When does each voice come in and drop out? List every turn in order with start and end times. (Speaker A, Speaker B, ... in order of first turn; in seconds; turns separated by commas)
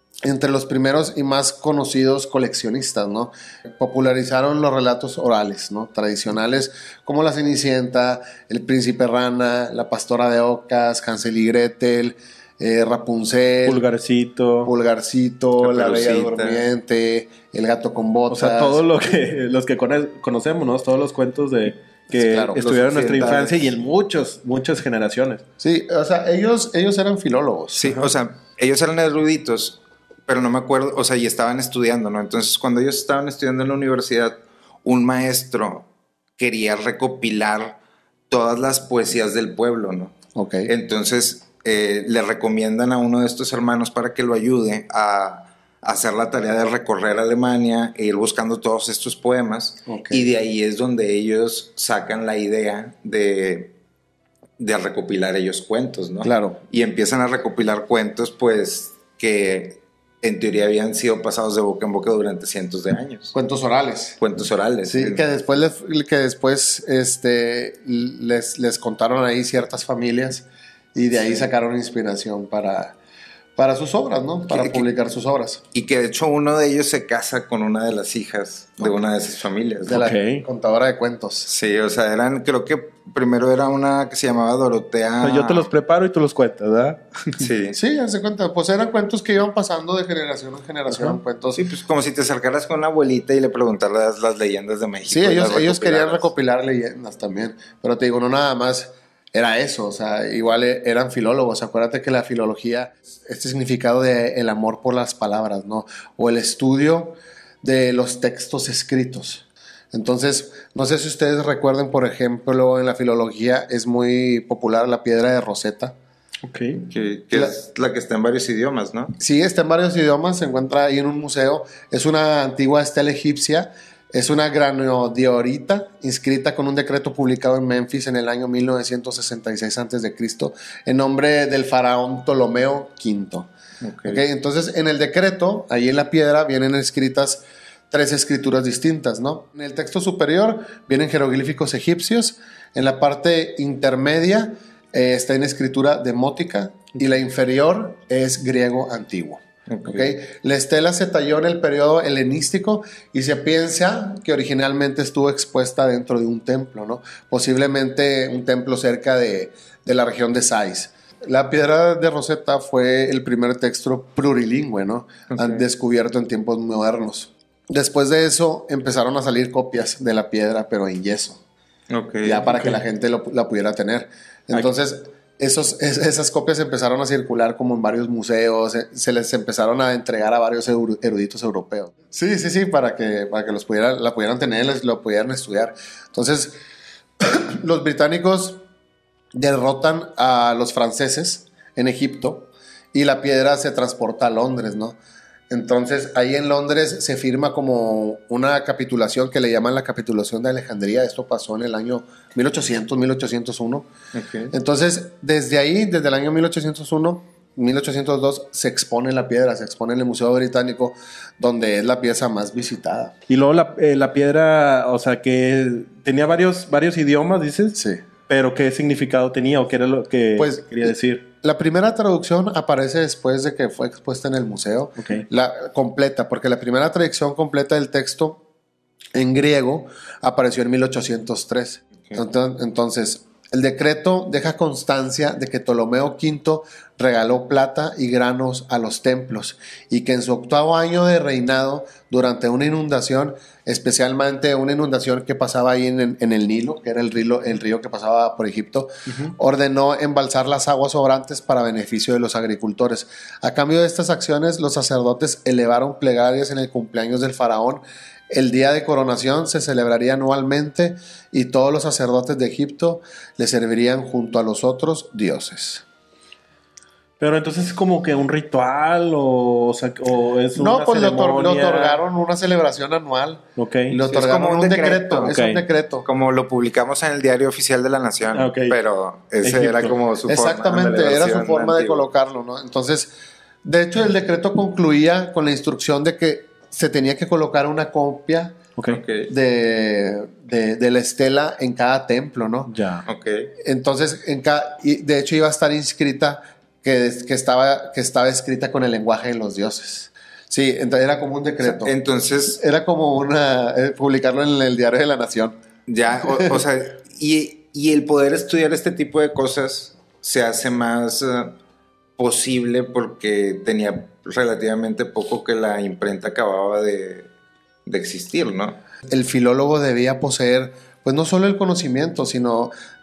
Speaker A: 0.2-13.8, Speaker B: 13.7-14.7, Speaker A: 14.6-18.8, Speaker C: 15.6-16.6, Speaker B: 18.3-25.4, Speaker A: 22.1-22.7, Speaker C: 22.6-23.7, Speaker A: 25.6-28.0, Speaker C: 27.8-37.8, Speaker C: 38.3-53.7, Speaker A: 40.3-40.7, Speaker A: 49.9-50.3, Speaker C: 54.6-63.3, Speaker A: 56.2-56.6, Speaker A: 63.3-64.2, Speaker C: 64.2-65.2, Speaker A: 64.9-73.0, Speaker A: 73.5-75.6, Speaker C: 74.5-74.8, Speaker C: 75.7-80.1, Speaker A: 79.8-81.5, Speaker B: 79.9-80.4, Speaker C: 81.5-85.7, Speaker B: 85.2-87.5, Speaker C: 87.4-87.8, Speaker A: 87.7-91.6, Speaker B: 90.9-91.2, Speaker C: 91.5-96.3, Speaker A: 95.1-115.9, Speaker B: 116.4-116.8, Speaker C: 116.8-119.2, Speaker A: 119.2-133.5, Speaker C: 133.8-134.2, Speaker A: 134.0-171.4, Speaker C: 149.7-150.1, Speaker C: 165.3-165.6, Speaker C: 171.9-172.4, Speaker A: 172.2-186.6, Speaker B: 172.5-172.8, Speaker A: 187.2-188.6, Speaker A: 189.3-195.0, Speaker A: 195.5-203.9, Speaker C: 204.1-204.5, Speaker A: 204.5-213.1, Speaker B: 213.3-221.2, Speaker A: 217.8-218.0, Speaker A: 220.4-228.4, Speaker B: 225.0-225.2, Speaker A: 229.1-265.8, Speaker B: 249.1-249.3, Speaker B: 267.2-272.0, Speaker A: 270.6-276.1, Speaker B: 273.6-274.0, Speaker C: 274.1-275.4, Speaker B: 275.3-275.6, Speaker C: 276.0-282.1, Speaker B: 278.3-278.8, Speaker B: 279.4-279.9, Speaker A: 280.3-283.1, Speaker A: 283.6-288.6, Speaker B: 288.8-289.0, Speaker C: 288.9-289.3, Speaker A: 289.3-292.7, Speaker B: 292.7-293.0, Speaker C: 293.1-293.5, Speaker A: 293.6-301.9, Speaker C: 301.6-302.6, Speaker A: 302.6-305.5, Speaker C: 305.9-311.6, Speaker A: 306.2-306.6, Speaker C: 312.2-317.3, Speaker C: 317.9-318.8, Speaker A: 319.1-322.7